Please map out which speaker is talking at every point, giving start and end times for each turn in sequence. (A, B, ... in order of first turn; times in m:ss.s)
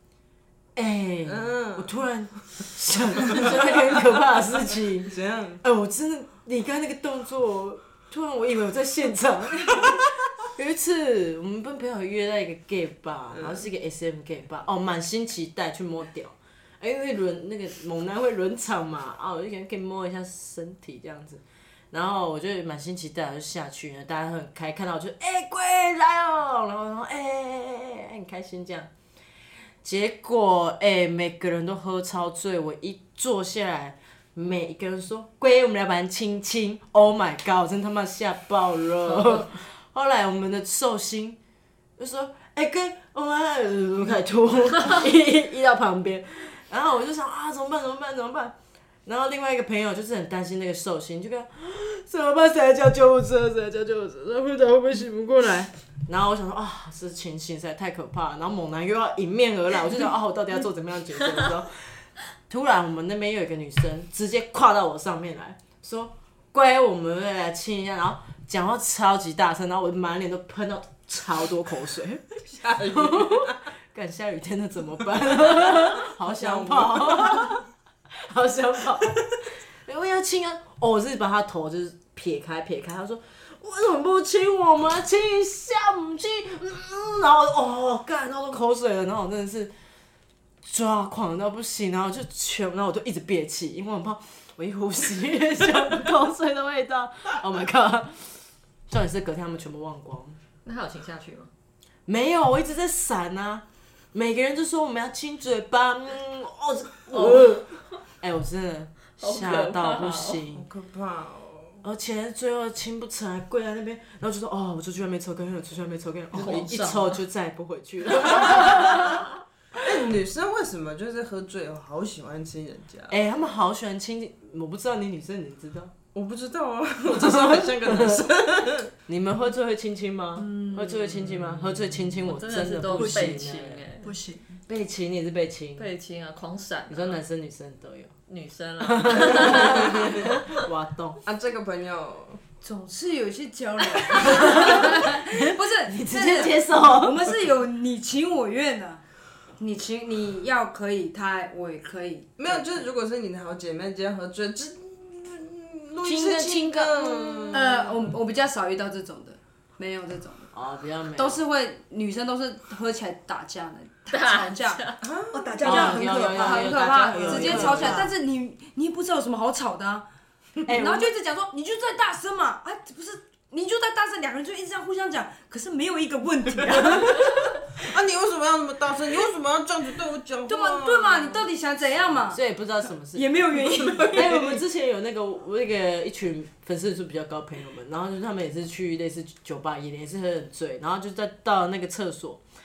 0:00.8-0:28.9 A
0:01.3-0:01.9 B
0:05.1-0:05.6 B
0:13.4-0:13.6 B
0:29.8-0:41.4 A
0:39.1-0:39.5 C
0:42.0-1:29.7 A
1:12.5-1:13.6 B
1:15.6-1:17.6 B
1:30.6-1:40.4 A
1:40.6-1:41.5 C
1:42.1-1:50.7 A
1:47.2-1:47.5 C
1:49.2-1:50.4 C
1:50.5-1:51.8 B
1:51.8-1:59.2 A
1:56.3-1:57.2 C
1:58.4-1:59.2 C
1:59.8-2:03.2 B
2:03.1-2:05.9 A
2:06.1-2:08.9 B
2:07.1-2:08.2 A
2:09.1-2:13.8 A
2:10.5-2:10.8 D
2:12.2-2:14.2 C
2:12.9-2:14.5 E
2:14.7-2:15.9 A
2:15.8-2:17.2 C
2:16.9-2:18.1 A
2:18.3-2:20.6 C
2:18.8-2:21.2 A
2:21.2-2:22.4 B
2:22.6-2:29.0 D
2:24.2-2:27.3 A
2:29.6-2:32.9 D
2:32.4-2:37.9 B
2:36.0-2:37.7 A
2:37.5-2:40.5 D
2:40.5-2:41.4 A
2:41.2-2:44.9 D
2:44.1-2:45.0 C
2:45.0-2:45.4 B
2:45.3-2:48.0 E
2:45.6-2:48.1 A
2:45.6-2:50.1 D
2:50.6-2:57.8 D
2:50.7-2:51.1 A
2:57.7-3:01.5 B
3:00.5-3:02.4 D
3:02.3-3:03.4 A
3:03.1-3:04.5 D
3:03.7-3:04.3 B
3:04.1-3:12.4 A